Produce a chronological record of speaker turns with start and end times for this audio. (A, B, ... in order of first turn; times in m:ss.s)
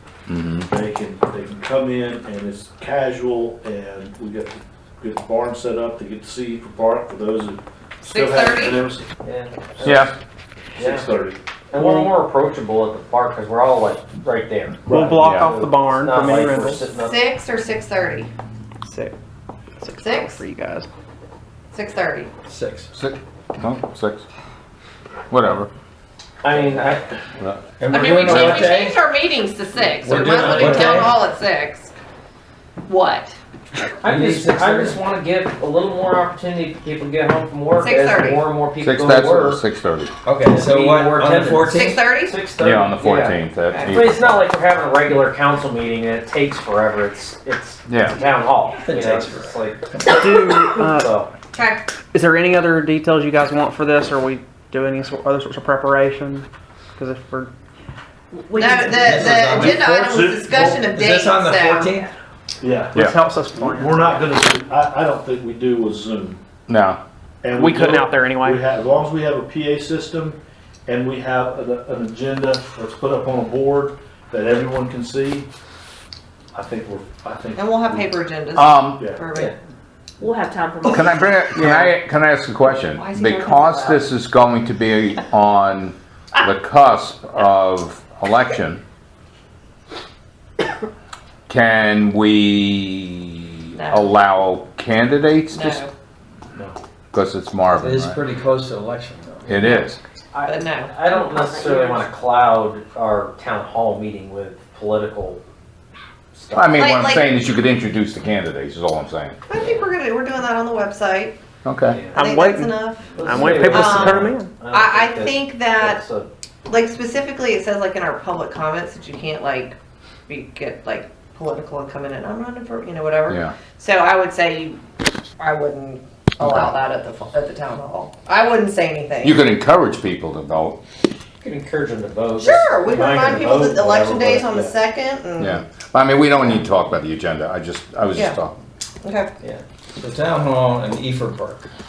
0:00.3-0:00.7 A
0:00.7-0:09.0 B
0:08.1-0:08.9 C
0:09.2-0:10.1 D
0:09.8-0:10.1 A
0:10.8-0:11.0 D
0:10.8-0:11.4 B
0:11.7-0:17.3 D
0:11.8-0:12.1 E
0:14.9-0:15.4 B
0:14.9-0:16.9 E
0:15.2-0:15.5 A
0:17.0-0:18.3 C
0:18.8-0:19.1 E
0:19.8-0:20.9 E
0:20.0-0:20.4 C
0:21.7-0:22.3 C
0:22.5-0:22.9 F
0:22.9-0:24.2 A
0:25.3-0:25.7 A
0:26.4-0:27.1 D
0:27.4-0:27.7 A
0:27.8-0:29.0 F
0:27.9-0:31.9 C
0:28.2-0:28.6 A
0:30.0-0:31.2 F
0:30.0-0:31.1 D
0:32.9-0:33.4 C
0:34.0-0:39.6 D
0:34.0-0:35.0 F
0:37.8-0:38.5 C
0:38.8-0:40.1 A
0:40.2-0:42.1 F
0:40.5-0:50.2 D
0:41.7-0:42.5 C
0:42.6-0:44.3 A
0:43.7-0:44.1 C
0:47.9-0:48.2 A
0:48.8-0:50.1 F
0:50.1-0:51.2 E
0:50.8-0:51.3 D
0:51.5-0:52.0 C
0:52.1-0:56.5 E
0:57.0-0:57.5 E
0:58.4-0:58.9 G
0:58.5-1:02.0 C
0:58.8-1:00.2 F
0:59.5-1:00.9 B
1:00.8-1:02.1 F
1:02.6-1:03.0 B
1:02.9-1:04.3 E
1:03.5-1:06.4 B
1:06.7-1:07.0 A
1:07.4-1:15.5 B
1:07.5-1:08.7 E
1:16.5-1:18.1 B
1:17.6-1:19.5 C
1:18.5-1:19.1 A
1:19.0-1:19.2 B
1:20.2-1:21.3 G
1:20.8-1:28.8 A
1:22.7-1:24.1 C
1:31.5-1:35.8 A
1:33.8-1:34.2 C
1:35.5-1:35.9 C
1:37.1-1:38.2 A
1:37.7-1:39.5 F
1:39.5-1:40.0 A
1:40.3-1:45.4 D
1:40.4-1:40.9 C
1:41.0-1:42.1 G
1:46.3-1:47.2 D
1:46.5-1:49.4 A
1:46.7-1:47.2 C
1:49.5-1:51.4 C
1:51.6-1:52.0 A
1:51.9-1:52.2 D
1:52.1-1:56.0 C
1:52.2-1:54.5 E
1:53.2-1:56.3 D
1:56.7-1:59.8 C
2:00.3-2:04.8 C
2:03.3-2:03.6 A
2:05.4-2:09.4 C
2:06.4-2:06.8 A
2:09.2-2:10.8 A
2:11.4-2:14.7 D
2:12.4-2:15.6 C
2:15.4-2:18.6 A
2:19.0-2:19.3 C
2:20.0-2:21.7 F